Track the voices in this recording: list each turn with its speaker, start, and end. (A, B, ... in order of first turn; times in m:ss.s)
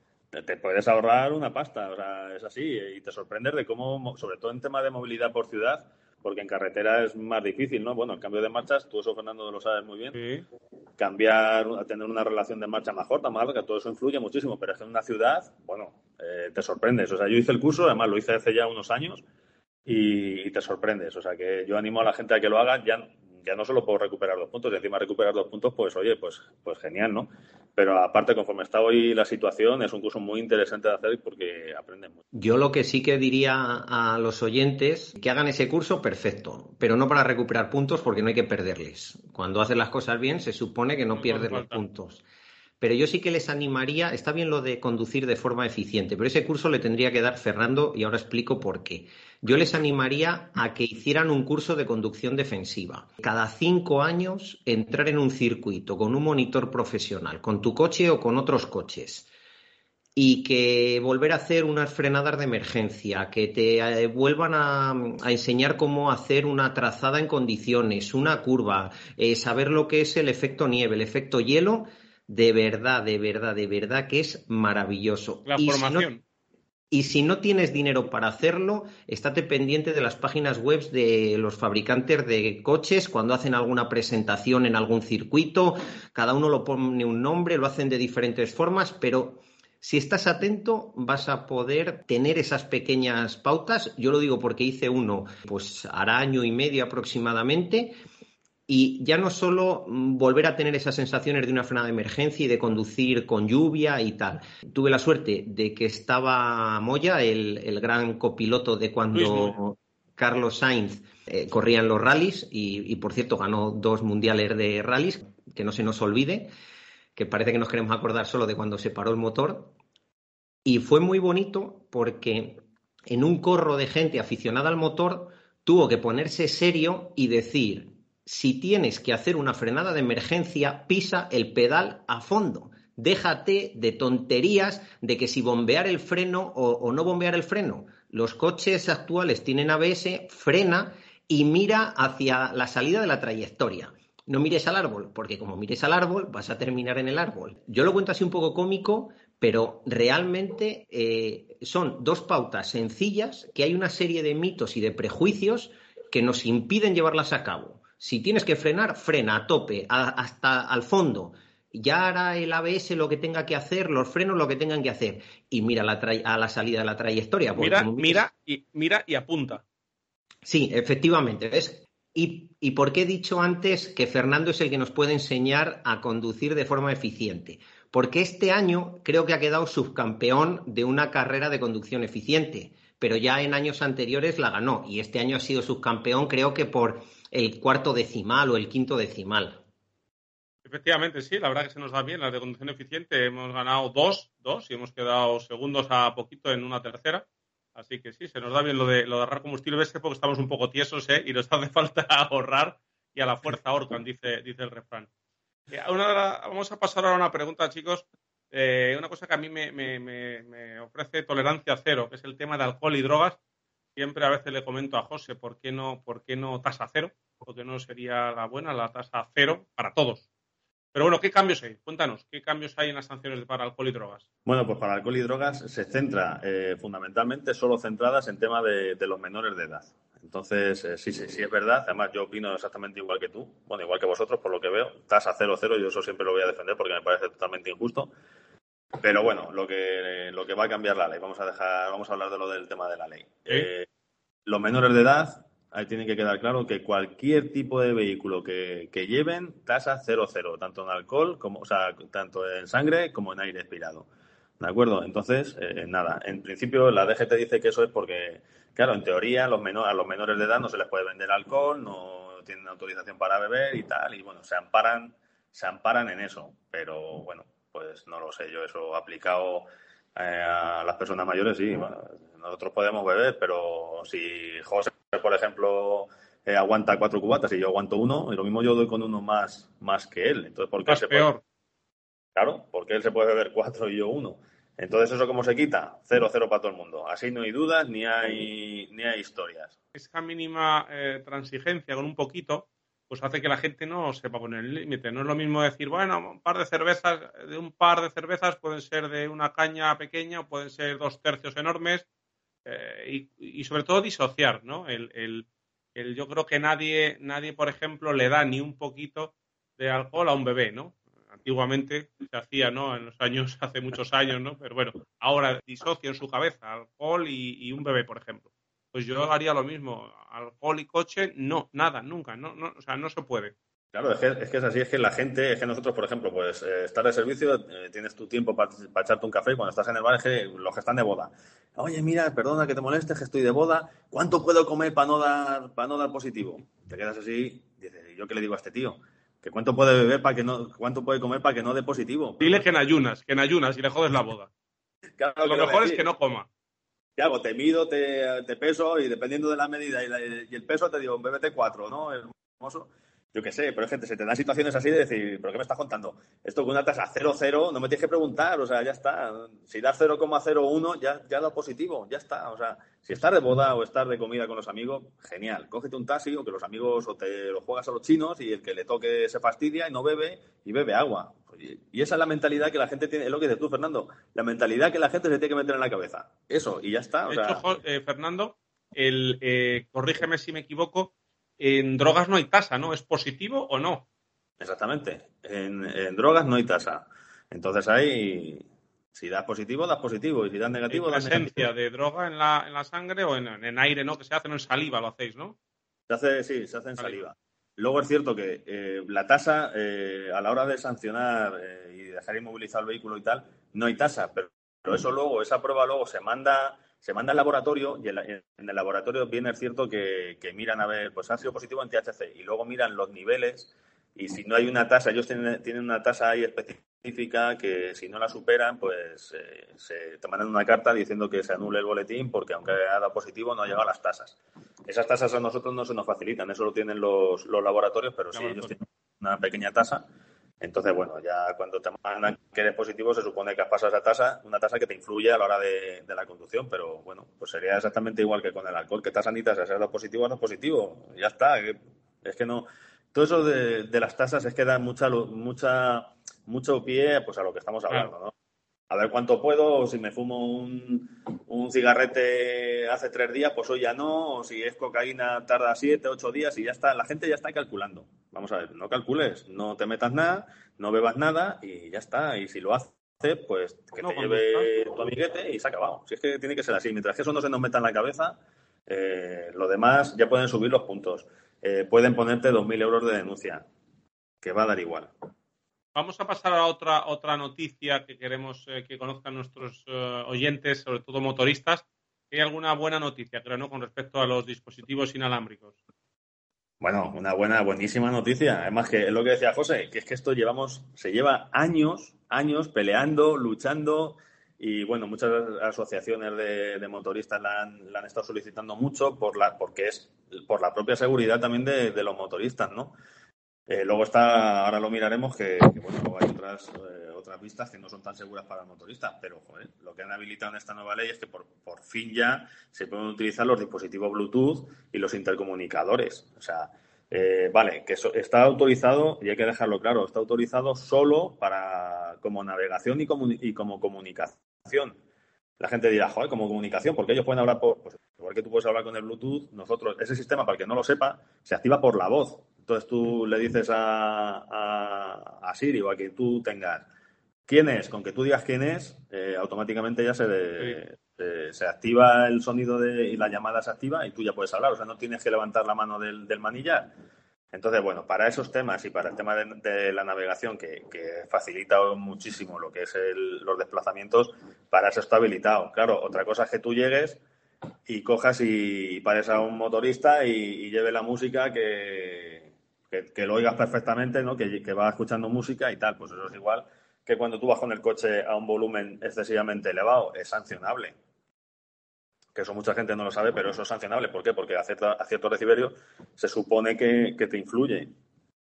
0:00.3-0:10.2 A
0:10.1-0:10.4 B
0:11.0-0:19.2 A
0:19.9-0:32.2 A
0:32.3-0:42.2 C
0:41.1-0:41.8 B
0:42.8-0:59.3 C
1:00.2-1:16.1 C
1:15.4-1:16.2 B
1:16.9-1:38.0 C
1:38.7-1:56.5 C
1:49.1-1:49.6 B
1:57.2-1:59.7 C
2:00.6-2:48.2 C
2:47.5-2:49.6 B
2:50.4-3:09.6 C
3:10.6-3:25.1 B
3:25.7-3:33.4 B
3:34.0-3:40.2 B
3:40.9-3:44.2 B
3:44.4-3:58.1 A
3:59.0-4:03.9 A
4:04.4-4:14.1 A
4:14.6-4:41.3 A
4:40.9-4:41.4 B
4:42.4-4:49.8 A
4:49.9-5:02.0 B
5:02.6-5:23.5 B
5:23.9-5:42.6 A
5:42.4-5:44.5 B
5:45.2-5:46.0 A
5:45.4-5:46.5 B
5:47.2-6:17.7 A
6:17.3-6:24.0 B
6:24.6-6:31.6 A
6:30.9-6:35.6 B
6:36.1-7:10.0 A
7:08.3-7:08.7 B
7:10.6-7:28.3 A
7:28.9-7:53.6 A
7:44.0-7:44.7 B
7:54.4-7:55.1 A
7:55.9-8:05.8 B
8:06.8-8:22.9 A
8:23.7-8:45.0 A
8:45.6-8:56.8 A
8:57.5-9:06.9 A
9:07.5-9:17.2 A
9:17.9-9:30.9 A
9:32.3-9:37.9 A